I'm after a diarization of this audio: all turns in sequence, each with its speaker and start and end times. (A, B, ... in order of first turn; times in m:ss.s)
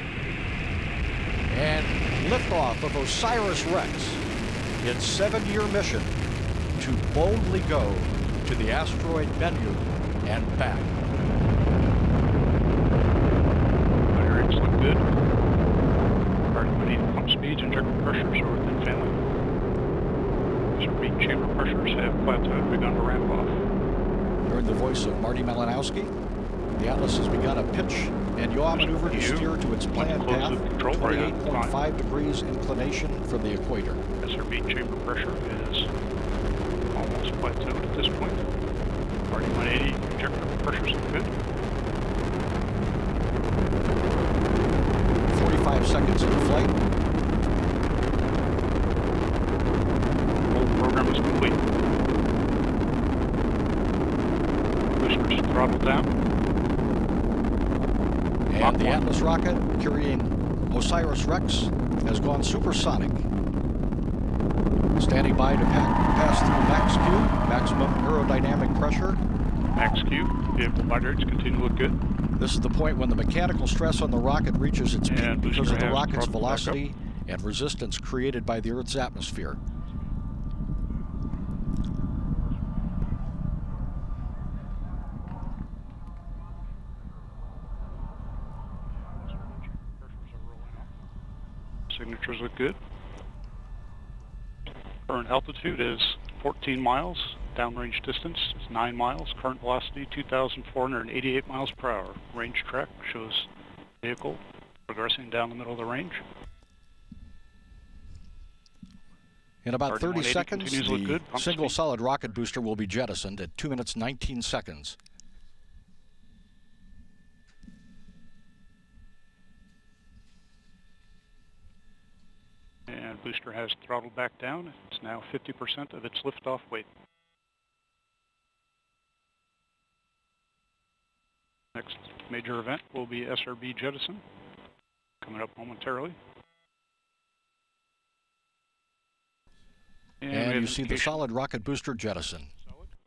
0:01.5-0:04.2 A
0:04.8-0:06.1 A
0:06.8-0:10.9 A
0:14.1-0:15.0 B
0:16.5-0:19.2 B
0:20.7-0:23.6 B
0:24.5-0:26.1 A
0:26.8-0:34.0 A
0:28.7-0:31.8 B
0:34.2-0:35.9 B
0:36.9-0:38.5 B
0:39.3-0:41.3 B
0:45.3-0:46.8 A
0:50.5-0:51.6 B
0:55.0-0:56.1 B
0:58.5-1:03.3 A
0:58.6-0:59.0 B
1:05.0-1:09.2 A
1:09.7-1:12.0 B
1:12.4-1:19.6 A
1:15.0-1:16.8 B
1:29.2-1:30.9 B
1:31.9-1:32.8 B
1:35.1-1:43.5 B
1:44.0-1:46.2 B
1:49.6-1:55.0 A
1:49.9-1:51.8 B
2:02.9-2:06.9 B
2:11.7-2:14.2 B
2:15.2-2:16.2 B
2:20.2-2:21.2 B
2:20.3-2:22.5 A
2:22.6-2:22.9 B